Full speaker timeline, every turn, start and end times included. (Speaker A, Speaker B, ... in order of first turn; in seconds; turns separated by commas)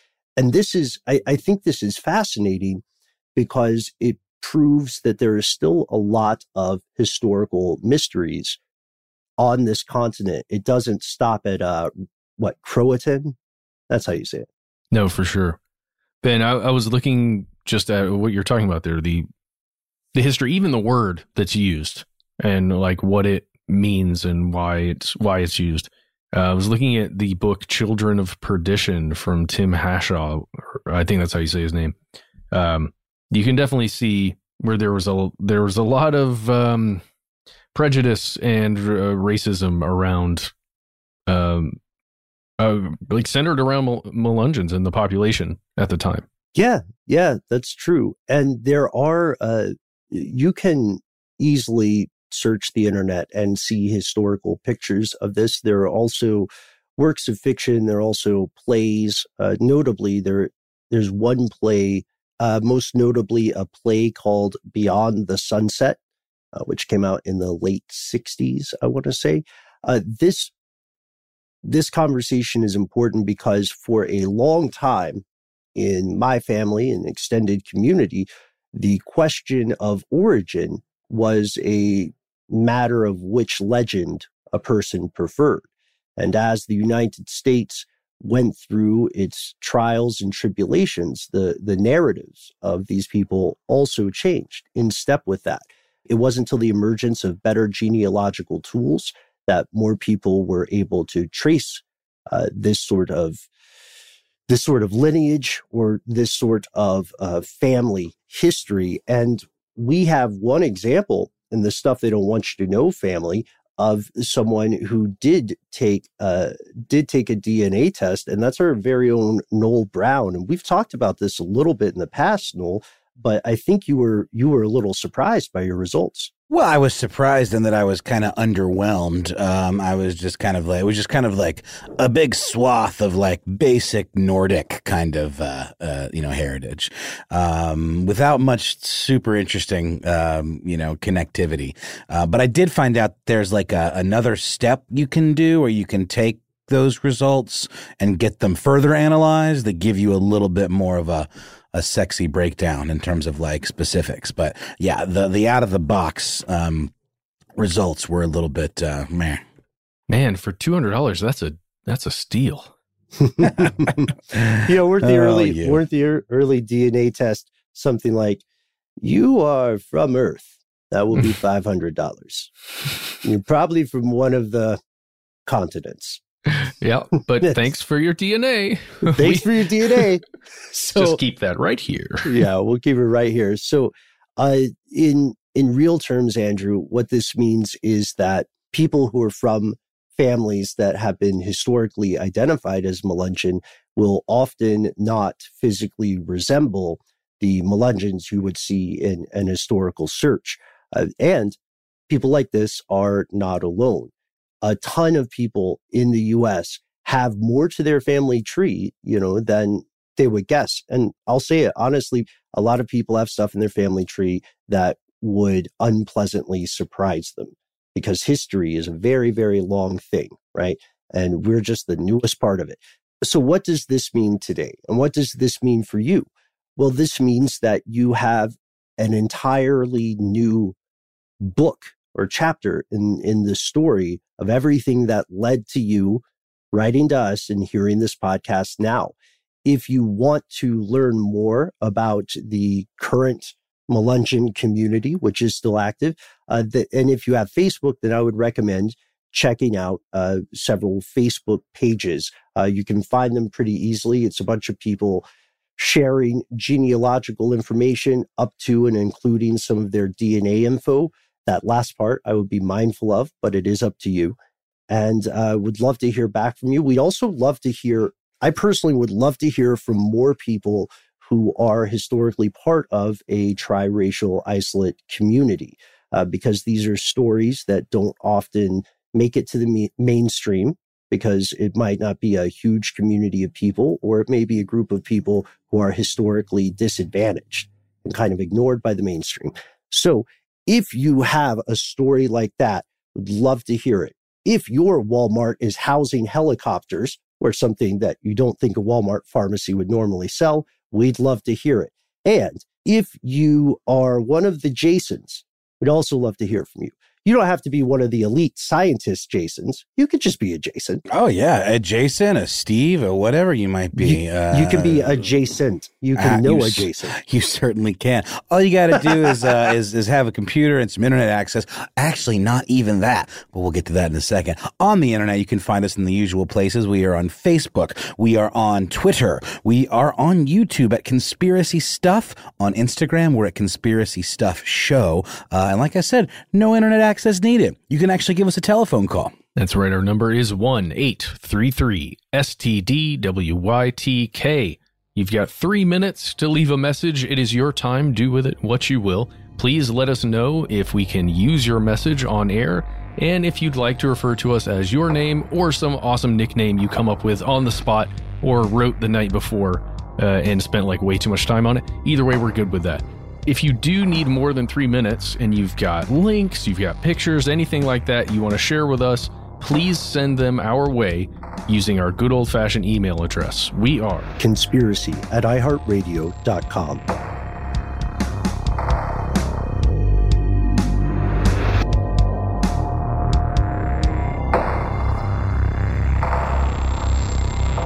Speaker A: 0.4-2.8, Speaker A: 3.4-8.6, Speaker A: 9.4-13.3, Speaker A: 13.9-14.5, Speaker B: 14.9-15.6, Speaker B: 16.2-19.3, Speaker B: 20.1-32.0, Speaker B: 32.5-37.0, Speaker B: 37.7-40.5, Speaker B: 41.3-41.8, Speaker B: 42.6-46.2, Speaker A: 46.6-66.0, Speaker A: 66.5-70.5, Speaker A: 71.7-75.2, Speaker A: 75.8-103.5, Speaker A: 104.5-126.3, Speaker C: 126.5-156.9, Speaker C: 157.6-159.4, Speaker B: 160.1-162.7, Speaker A: 163.2-168.4, Speaker C: 163.4-165.8, Speaker A: 169.0-172.5, Speaker A: 173.2-174.8, Speaker A: 175.5-176.2, Speaker B: 176.6-180.0, Speaker A: 179.1-181.2, Speaker B: 180.9-182.3, Speaker A: 182.3-201.6, Speaker A: 202.1-204.1, Speaker A: 204.6-230.8, Speaker A: 231.4-239.1, Speaker A: 239.7-255.2, Speaker A: 255.8-264.4, Speaker A: 264.9-311.0, Speaker C: 311.1-315.2, Speaker A: 314.0-317.2, Speaker C: 316.2-339.4, Speaker B: 339.6-374.4, Speaker A: 374.4-377.0